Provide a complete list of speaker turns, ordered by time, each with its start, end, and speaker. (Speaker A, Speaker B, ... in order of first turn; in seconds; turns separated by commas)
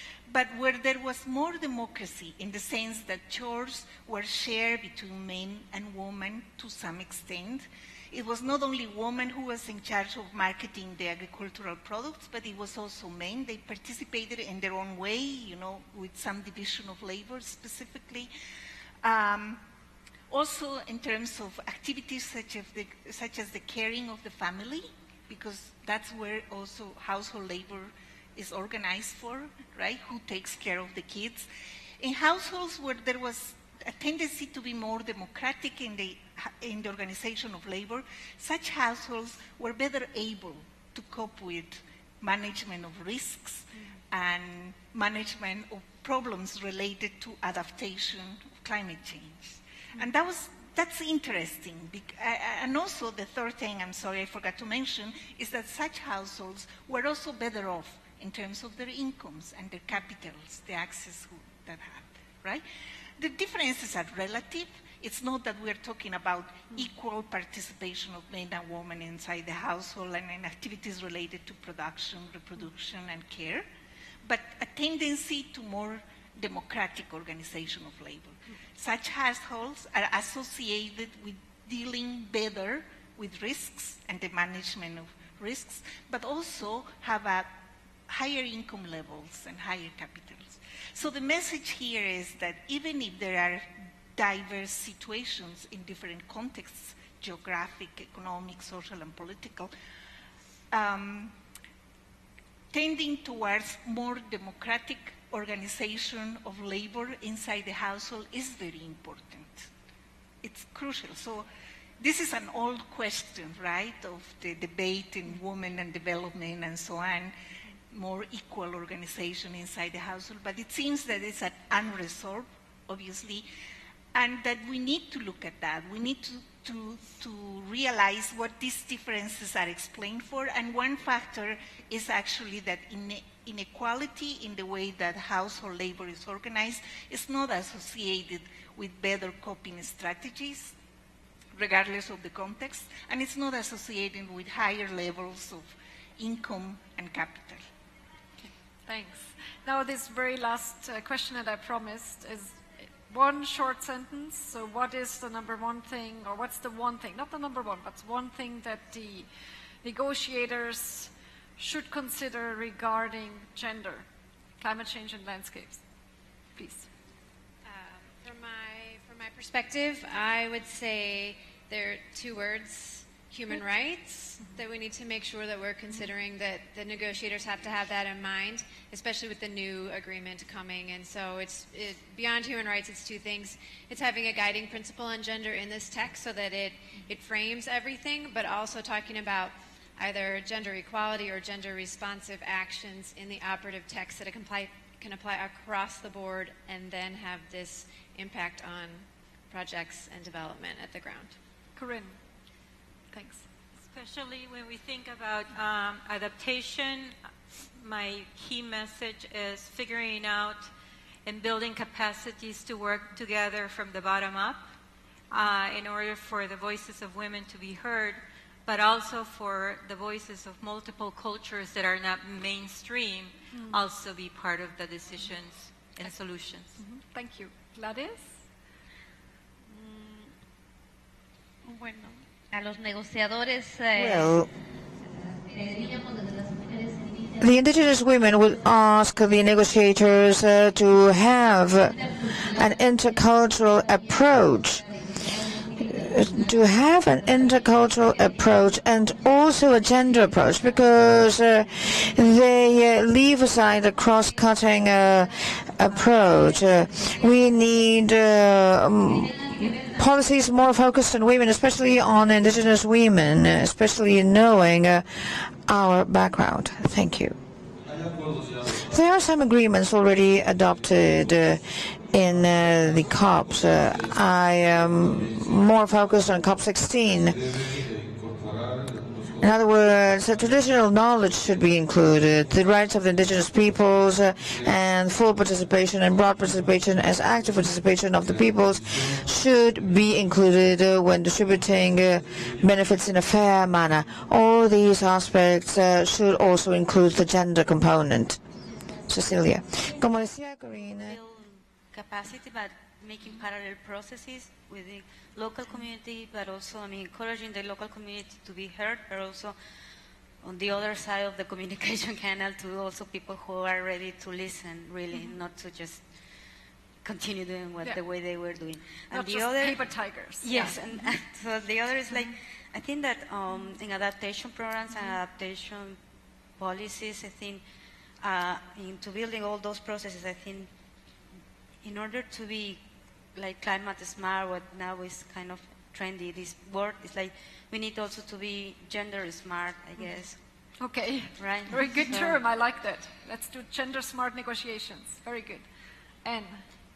Speaker A: 0.3-18.3, Speaker A: 19.0-19.6, Speaker A: 20.3-31.5, Speaker A: 32.0-62.6, Speaker A: 63.2-73.7, Speaker A: 74.2-87.5, Speaker A: 88.1-99.7, Speaker A: 100.7-101.3, Speaker A: 102.7-109.7, Speaker A: 110.4-111.5, Speaker A: 112.0-117.3, Speaker A: 117.9-123.5, Speaker A: 124.1-140.8, Speaker A: 141.6-147.7, Speaker B: 148.4-159.3, Speaker B: 159.8-164.1, Speaker B: 164.6-165.8, Speaker B: 166.6-166.9, Speaker C: 167.6-201.4, Speaker B: 201.8-202.2, Speaker B: 203.1-203.5, Speaker D: 203.9-207.2, Speaker D: 207.8-210.7, Speaker D: 211.3-214.7, Speaker D: 215.3-226.8, Speaker B: 223.5-223.8, Speaker B: 226.8-228.4, Speaker E: 229.7-230.3, Speaker B: 231.8-232.2, Speaker E: 232.5-234.4, Speaker F: 233.9-234.5, Speaker E: 235.5-237.1, Speaker F: 237.4-244.9, Speaker F: 245.8-267.4, Speaker F: 268.6-277.5, Speaker F: 279.4-298.4, Speaker F: 299.1-301.2, Speaker G: 301.0-309.6, Speaker G: 310.4-316.1, Speaker G: 317.0-319.8, Speaker B: 319.1-320.8, Speaker G: 320.4-326.0, Speaker G: 326.6-327.6, Speaker G: 328.2-330.7, Speaker G: 331.8-332.8, Speaker G: 333.4-340.4, Speaker B: 340.8-345.7, Speaker G: 341.4-342.4, Speaker B: 346.2-346.6